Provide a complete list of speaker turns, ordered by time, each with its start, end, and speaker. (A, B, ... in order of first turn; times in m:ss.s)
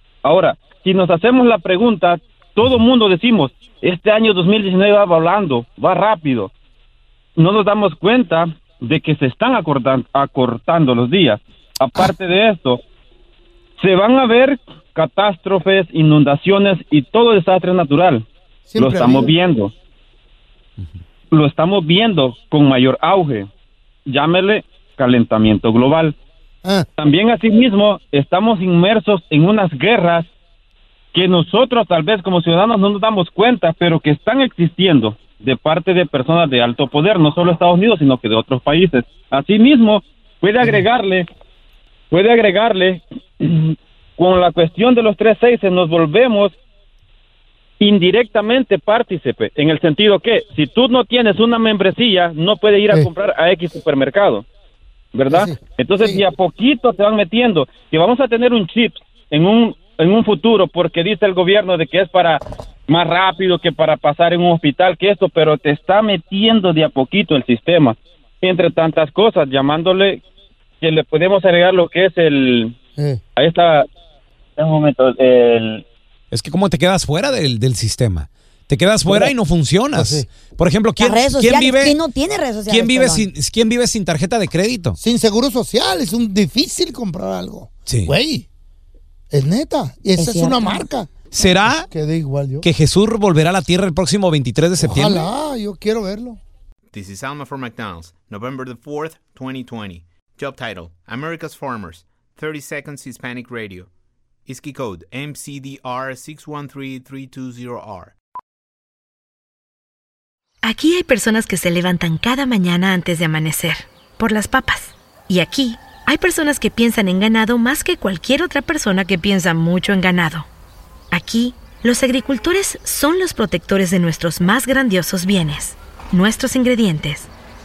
0:00.2-0:06.5 A
0:07.4-0:12.8 A
0:13.8-0:18.2 A
0:18.7-0:19.3 B
0:18.8-0:19.7 A
0:21.3-0:23.5 A
0:24.1-0:26.2 A
0:27.0-0:30.3 A
0:31.1-0:41.2 A
0:40.6-0:40.9 B
0:42.1-0:46.6 A
0:47.8-0:54.4 A
0:55.1-1:10.2 A
0:55.3-0:56.2 B
1:10.8-1:12.8 A
1:13.4-1:13.8 A
1:14.6-1:15.8 A
1:16.3-1:22.0 C
1:19.1-1:19.3 B
1:19.9-1:20.3 B
1:21.0-1:23.3 D
1:22.7-1:25.0 C
1:25.0-1:28.5 B
1:27.9-1:28.1 C
1:29.3-1:32.7 B
1:30.2-1:30.9 D
1:31.3-1:31.9 C
1:32.6-1:35.3 C
1:34.8-1:36.4 B
1:36.9-1:43.9 E
1:44.5-1:48.1 E
1:50.6-2:00.5 F
2:01.1-2:07.3 F